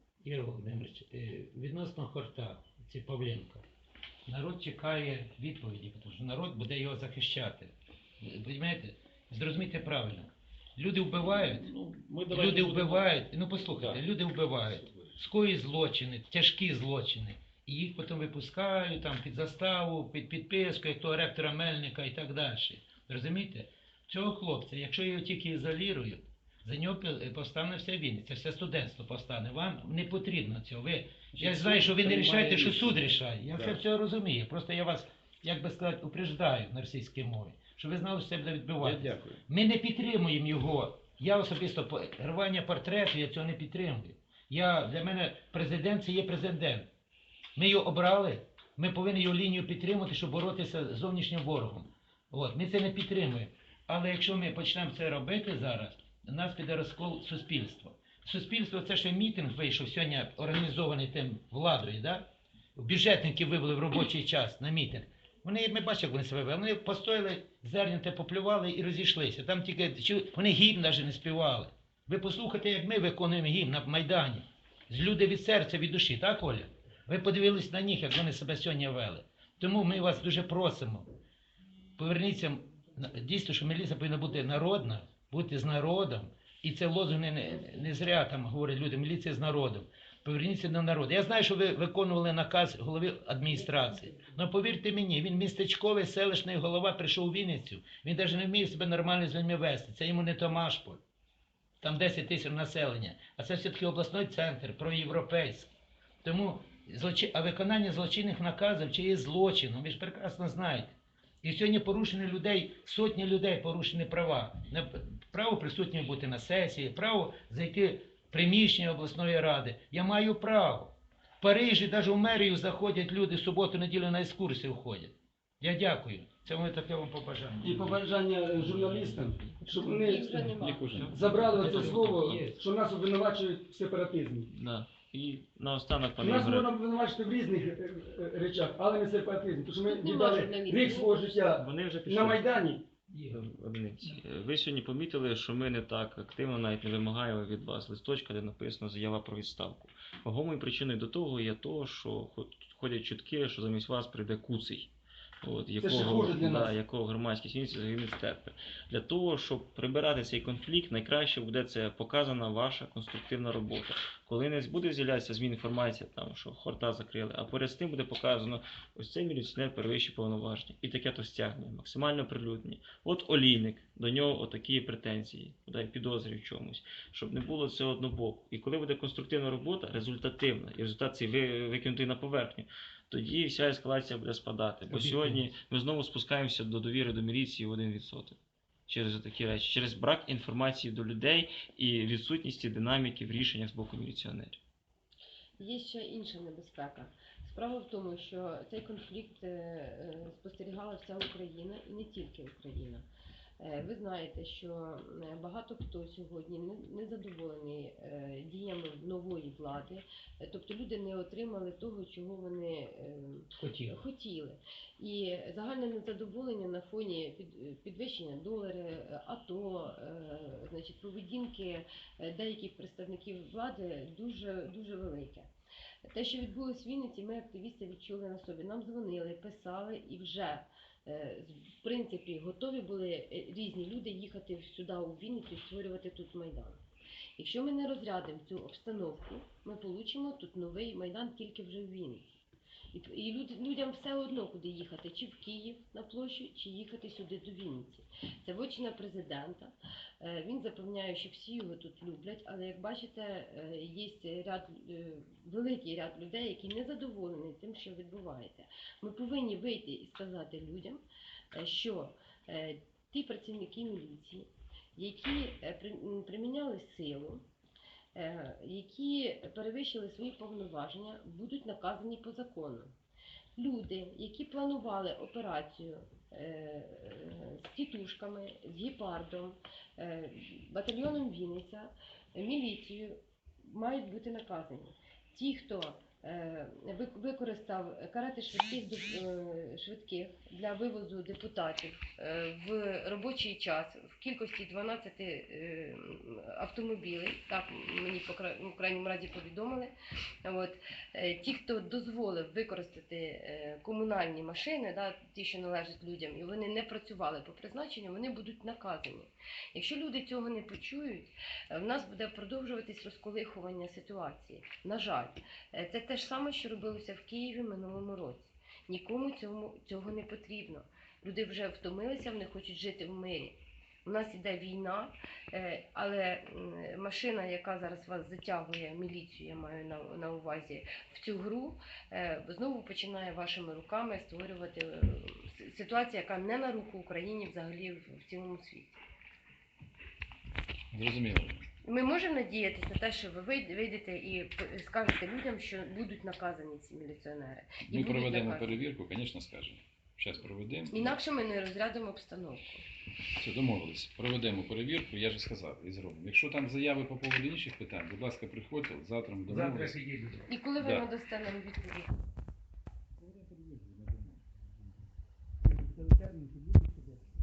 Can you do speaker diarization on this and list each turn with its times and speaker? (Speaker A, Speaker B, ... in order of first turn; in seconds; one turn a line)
Speaker A: 0.2-3.6
Speaker A: 4.2-11.7
Speaker B: 11.2-14.0
Speaker A: 12.3-46.9
Speaker B: 14.7-15.1
Speaker B: 31.3-33.8
Speaker B: 38.8-39.4
Speaker A: 47.5-62.2
Speaker A: 62.8-81.1
Speaker A: 82.0-101.0
Speaker C: 93.5-94.3
Speaker A: 101.8-105.7
Speaker A: 106.2-127.9
Speaker D: 127.6-130.4
Speaker E: 128.5-132.6
Speaker C: 129.8-131.1
Speaker D: 131.1-134.5
Speaker E: 134.5-136.7
Speaker D: 136.2-142.8
Speaker C: 139.8-141.5
Speaker E: 141.5-142.5
Speaker E: 143.3-154.9
Speaker E: 155.4-194.6
Speaker D: 155.8-156.7
Speaker A: 184.9-185.5
Speaker C: 195.6-203.1
Speaker C: 203.6-225.5
Speaker A: 213.6-214.0
Speaker C: 226.1-236.8
Speaker C: 237.4-242.4
Speaker C: 242.9-261.0
Speaker C: 261.5-267.4
Speaker C: 268.1-272.9
Speaker C: 273.6-339.0
Speaker B: 340.9-341.6
Speaker C: 341.8-348.8
Speaker B: 347.8-351.2
Speaker C: 350.9-352.9
Speaker B: 353.4-359.9
Speaker A: 359.5-360.5
Speaker C: 360.5-362.1
Speaker B: 360.8-361.1
Speaker B: 363.2-364.3
Speaker D: 365.6-367.2